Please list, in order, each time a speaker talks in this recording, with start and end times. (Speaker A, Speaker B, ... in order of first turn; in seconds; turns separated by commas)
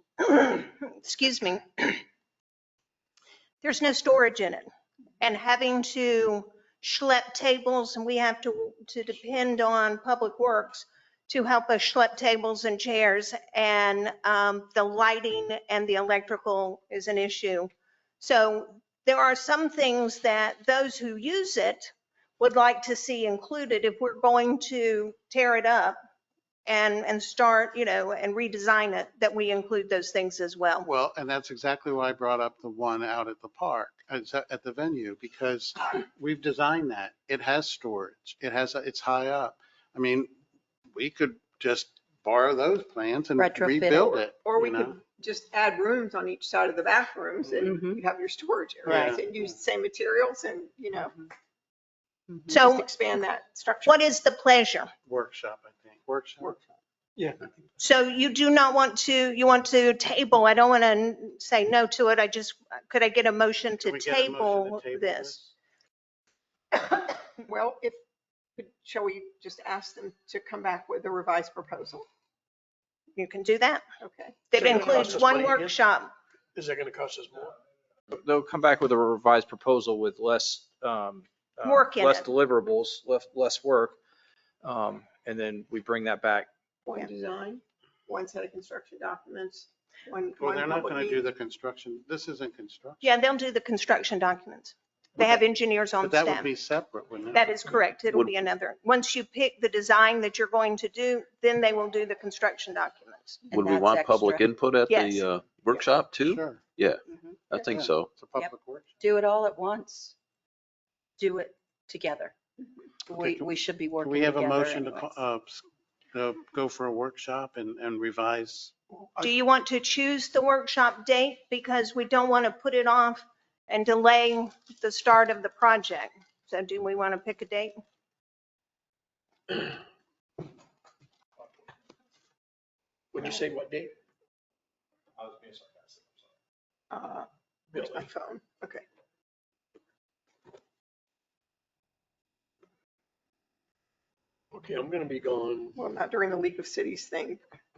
Speaker A: 0.2-2.0, Speaker A: 3.6-4.6, Speaker A: 5.2-26.0, Speaker A: 26.6-30.9, Speaker B: 30.8-40.3, Speaker B: 40.9-45.0, Speaker C: 43.4-44.2, Speaker D: 44.4-51.2, Speaker C: 47.6-48.0, Speaker B: 48.9-49.3, Speaker A: 52.5-52.9, Speaker D: 52.6-54.0, Speaker A: 53.8-54.9, Speaker B: 55.0-56.5, Speaker E: 57.1-57.5, Speaker A: 57.8-65.4, Speaker B: 63.8-65.4, Speaker D: 66.8-68.0, Speaker D: 68.5-72.0, Speaker A: 73.2-73.8, Speaker D: 74.0-75.0, Speaker A: 74.5-76.1, Speaker E: 74.5-75.8, Speaker E: 76.5-77.5, Speaker F: 78.1-84.0, Speaker A: 81.6-82.3, Speaker F: 84.6-86.5, Speaker D: 86.8-91.2, Speaker B: 90.4-93.1, Speaker A: 93.0-96.5, Speaker B: 96.0-97.6, Speaker A: 97.3-103.4, Speaker C: 103.5-104.5, Speaker G: 103.5-108.1, Speaker A: 104.8-105.2, Speaker B: 106.2-106.6, Speaker C: 107.1-107.7, Speaker B: 107.6-108.9, Speaker C: 108.3-110.1, Speaker C: 111.2-112.3, Speaker C: 113.0-115.2, Speaker B: 113.2-118.7, Speaker A: 119.2-127.7, Speaker E: 133.1-133.9, Speaker F: 135.2-136.0, Speaker D: 136.9-137.3, Speaker E: 137.7-138.1, Speaker D: 137.8-138.8, Speaker E: 144.5-145.8, Speaker D: 145.7-147.4